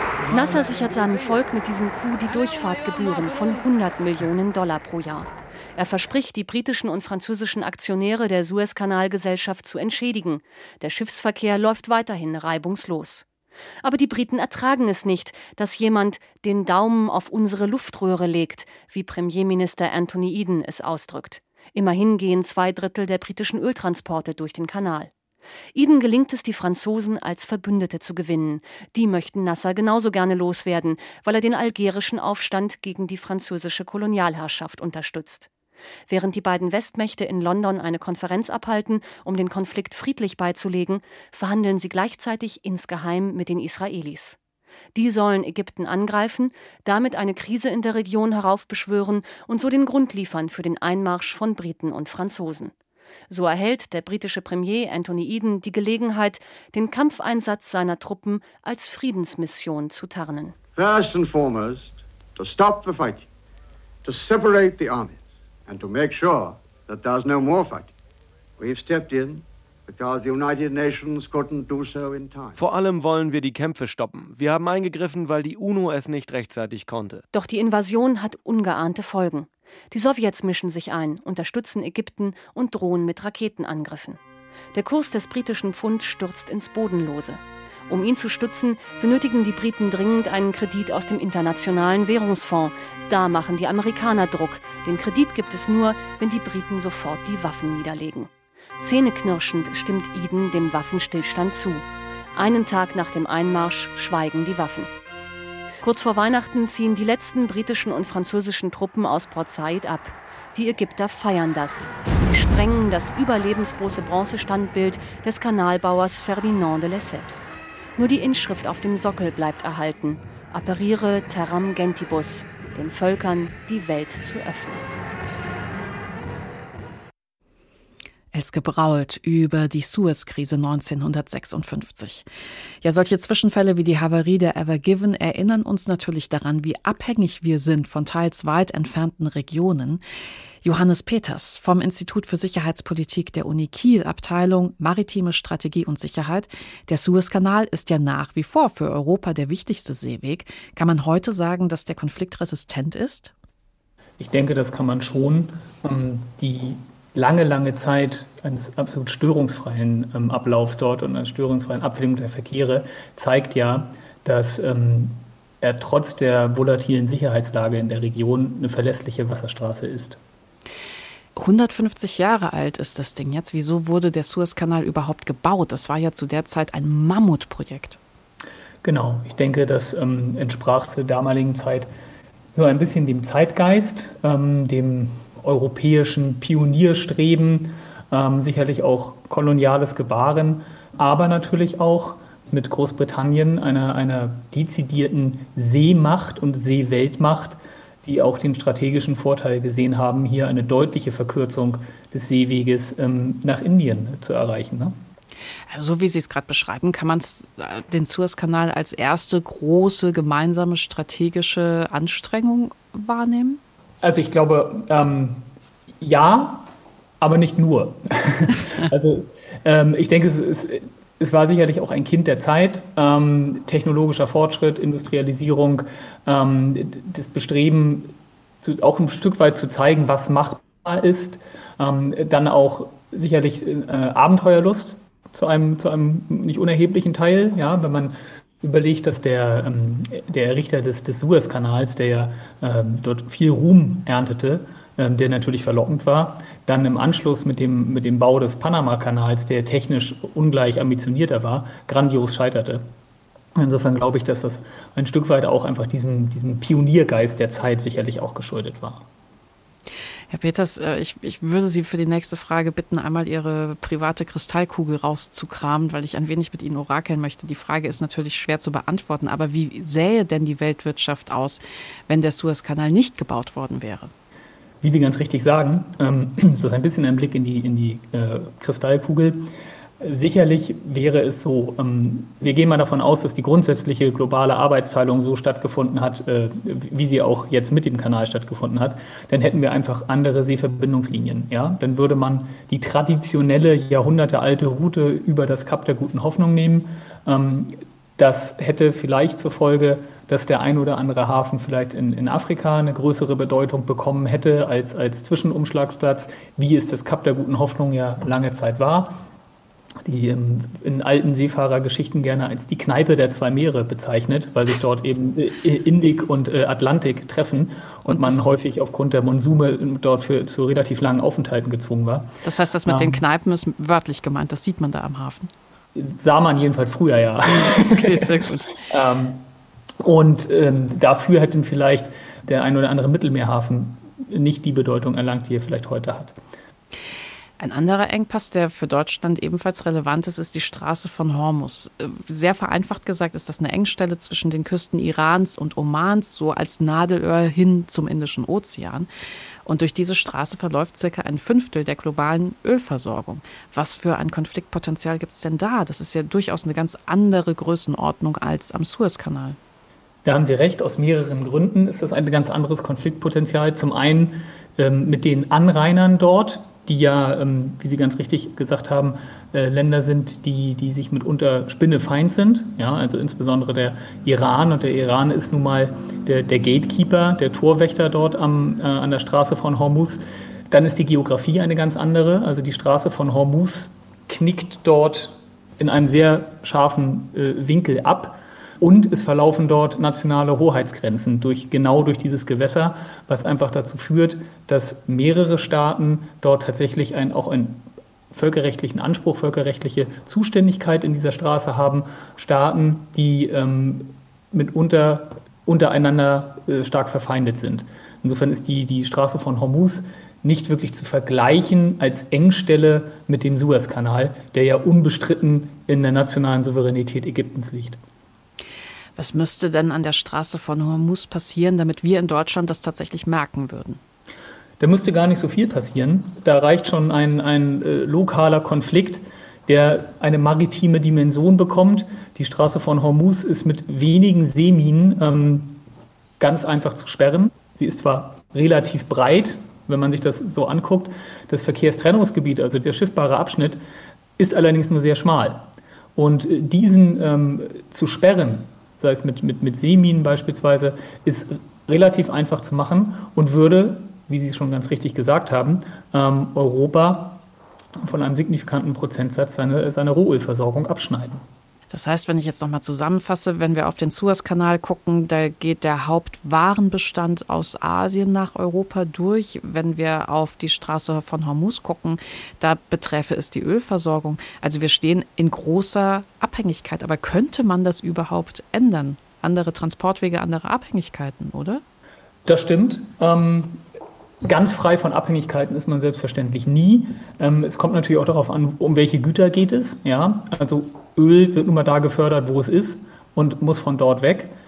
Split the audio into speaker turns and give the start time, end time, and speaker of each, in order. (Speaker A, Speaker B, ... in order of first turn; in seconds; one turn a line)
Speaker A: 0.3-13.2
Speaker A: 13.8-25.1
Speaker A: 25.8-35.5
Speaker A: 36.1-44.4
Speaker A: 45.0-52.7
Speaker A: 53.3-60.6
Speaker B: 60.8-63.3
Speaker B: 64.0-67.9
Speaker B: 68.6-72.6
Speaker C: 72.6-77.2
Speaker A: 77.3-84.2
Speaker A: 84.7-104.9
Speaker A: 105.8-124.8
Speaker D: 128.3-132.3
Speaker D: 132.8-140.0
Speaker D: 140.6-153.3
Speaker E: 154.2-170.2
Speaker D: 171.4-178.0
Speaker E: 178.8-181.9
Speaker E: 182.6-204.9
Speaker D: 205.7-213.6
Speaker E: 214.0-215.4
Speaker E: 216.0-216.7
Speaker E: 217.2-252.8
Speaker E: 253.6-259.1
Speaker D: 260.3-274.1
Speaker E: 274.8-279.5
Speaker E: 280.0-309.2
Speaker E: 310.1-322.3
Speaker D: 318.1-318.5
Speaker D: 322.4-325.5
Speaker E: 322.9-323.2
Speaker E: 326.0-329.4
Speaker D: 327.5-328.8
Speaker E: 330.0-336.4
Speaker D: 337.6-349.1
Speaker D: 349.7-359.6
Speaker E: 360.2-418.0
Speaker D: 419.2-424.0
Speaker E: 424.8-435.8
Speaker E: 436.4-443.8
Speaker E: 444.4-445.6
Speaker E: 446.2-457.4
Speaker E: 458.0-461.4
Speaker D: 461.9-481.8
Speaker E: 482.5-483.8
Speaker E: 484.4-494.5